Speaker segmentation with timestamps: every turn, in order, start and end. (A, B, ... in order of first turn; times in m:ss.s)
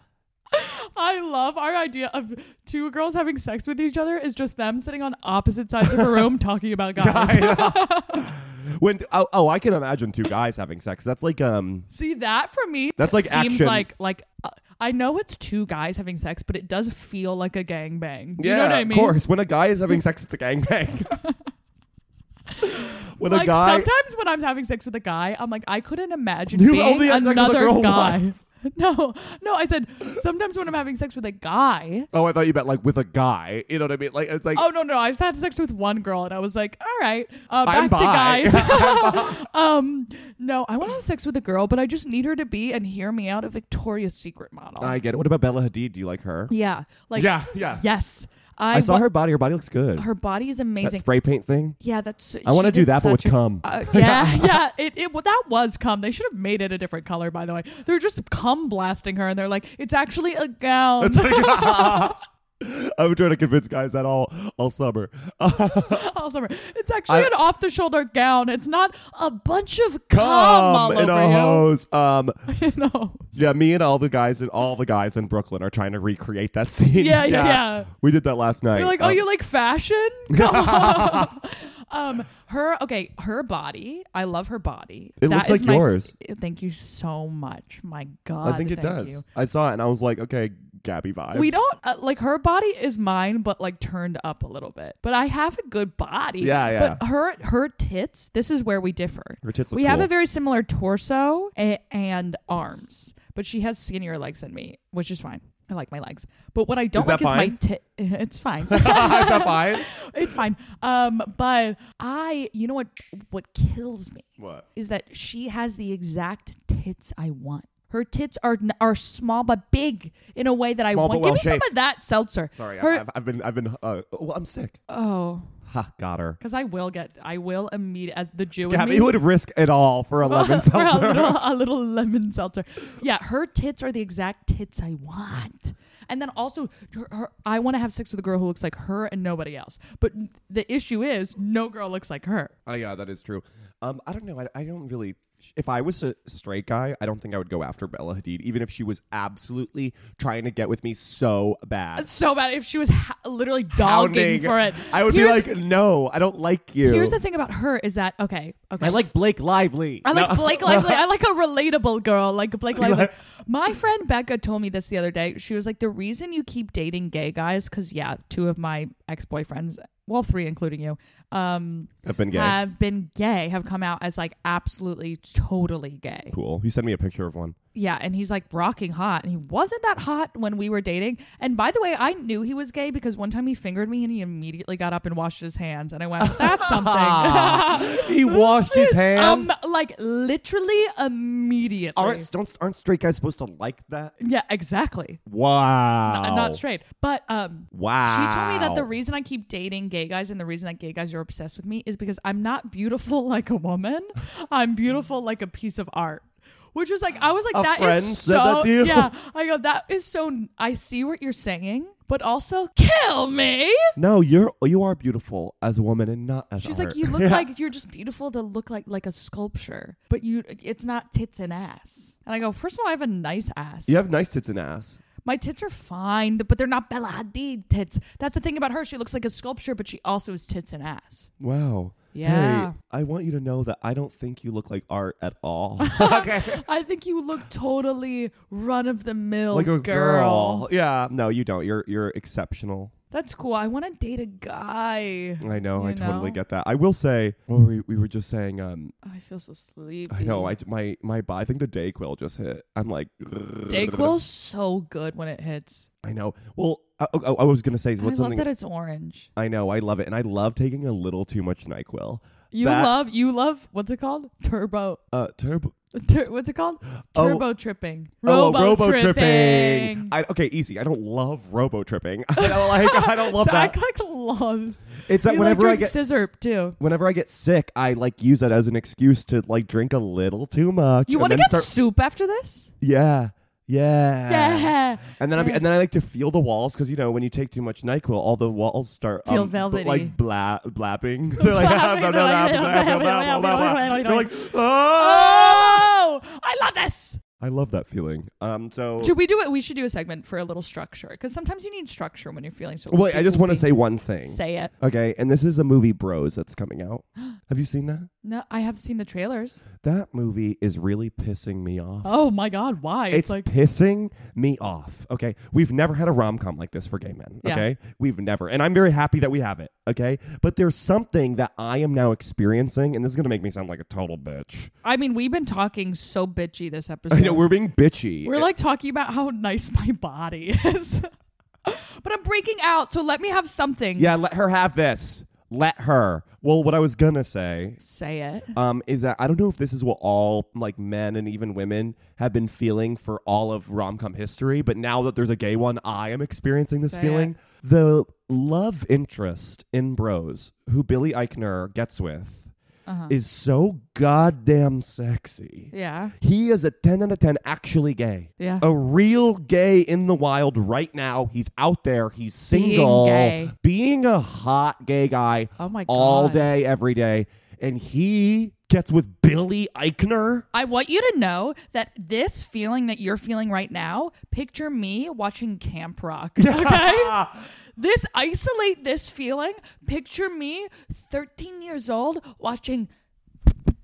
0:00.5-0:08.3 A
0:05.8-0:06.3 B
0:07.0-0:11.9 B
0:11.9-0:19.2 A
0:13.0-0:13.9 B
0:18.4-0:21.2 B
0:22.6-0:32.1 A
0:22.6-0:23.9 B
0:26.5-0:28.2 B
0:32.1-0:34.7 B
0:34.5-0:45.0 A
0:37.7-0:39.4 B
0:44.8-0:46.5 B
0:46.5-0:49.1 A
0:47.1-0:47.9 B
0:48.7-0:50.1 B
0:50.0-0:51.0 A
0:50.8-0:51.8 B
0:51.8-1:02.2 A
0:52.4-0:54.6 B
1:01.0-1:06.1 B
1:05.5-1:11.7 A
1:07.1-1:07.3 B
1:10.1-1:12.4 B
1:12.5-1:13.3 A
1:13.4-1:19.2 B
1:17.0-1:17.9 A
1:18.7-1:29.2 A
1:20.3-1:21.4 B
1:25.2-1:26.1 B
1:28.4-1:31.6 B
1:31.3-2:03.0 A
1:36.4-1:37.0 B
1:39.4-1:40.1 B
1:46.9-1:47.6 B
1:48.7-1:50.0 B
1:54.4-1:54.6 B
2:00.9-2:01.7 B
2:02.5-2:04.8 B
2:04.9-2:05.5 A
2:05.7-2:06.4 B
2:06.4-2:09.2 A
2:08.7-2:11.4 B
2:10.2-2:22.5 A
2:22.7-2:32.1 B
2:32.0-2:35.5 A
2:33.7-2:37.2 B
2:36.8-2:39.0 A
2:38.8-2:41.1 B
2:40.0-2:56.3 A
2:42.8-2:43.1 B
2:52.0-2:52.6 B
2:56.3-2:57.6 B
2:57.8-3:12.3 A
3:06.2-3:09.6 B
3:12.0-3:14.2 B
3:14.2-3:15.2 A
3:15.3-3:16.6 B
3:16.0-3:33.9 A
3:17.7-3:18.9 B
3:27.5-3:29.1 B
3:34.0-3:37.5 B
3:36.6-3:44.0 A
3:43.9-3:45.0 B
3:45.2-3:51.3 A
3:51.4-3:56.6 B
3:52.1-3:52.8 A
3:55.8-4:00.7 A
3:59.5-4:02.9 B
4:03.1-4:06.4 A
4:05.4-4:08.9 B
4:09.0-4:10.6 A
4:10.1-4:14.2 B
4:13.7-4:15.9 A
4:16.0-4:18.5 B
4:18.0-4:19.3 A
4:19.4-4:23.0 B
4:22.5-4:25.0 A
4:25.1-4:25.8 B
4:25.9-4:30.1 A
4:27.1-4:27.4 B
4:28.2-4:33.8 B
4:32.4-4:36.8 A
4:35.1-4:41.7 B
4:41.1-4:42.7 A
4:42.8-4:55.9 B
4:44.3-4:45.6 A
4:49.3-4:50.2 A
4:51.4-4:57.2 A
4:57.4-4:59.2 B
4:59.0-5:04.7 A
5:02.9-5:08.1 B
5:08.2-5:09.6 A
5:09.8-5:12.1 B
5:12.0-5:13.5 A
5:13.1-5:24.7 B
5:24.8-5:27.5 A
5:27.1-5:28.5 B
5:28.2-5:31.1 A
5:31.6-5:34.1 A
5:34.0-5:37.8 B
5:37.8-5:38.5 A
5:38.6-5:52.5 B
5:46.9-5:47.3 A
5:52.9-5:53.1 A
5:53.1-6:10.5 B
5:55.7-5:56.2 A
5:58.4-5:58.6 A
6:02.5-6:03.5 A
6:05.6-6:06.5 A
6:10.5-6:22.9 A
6:16.4-6:17.4 B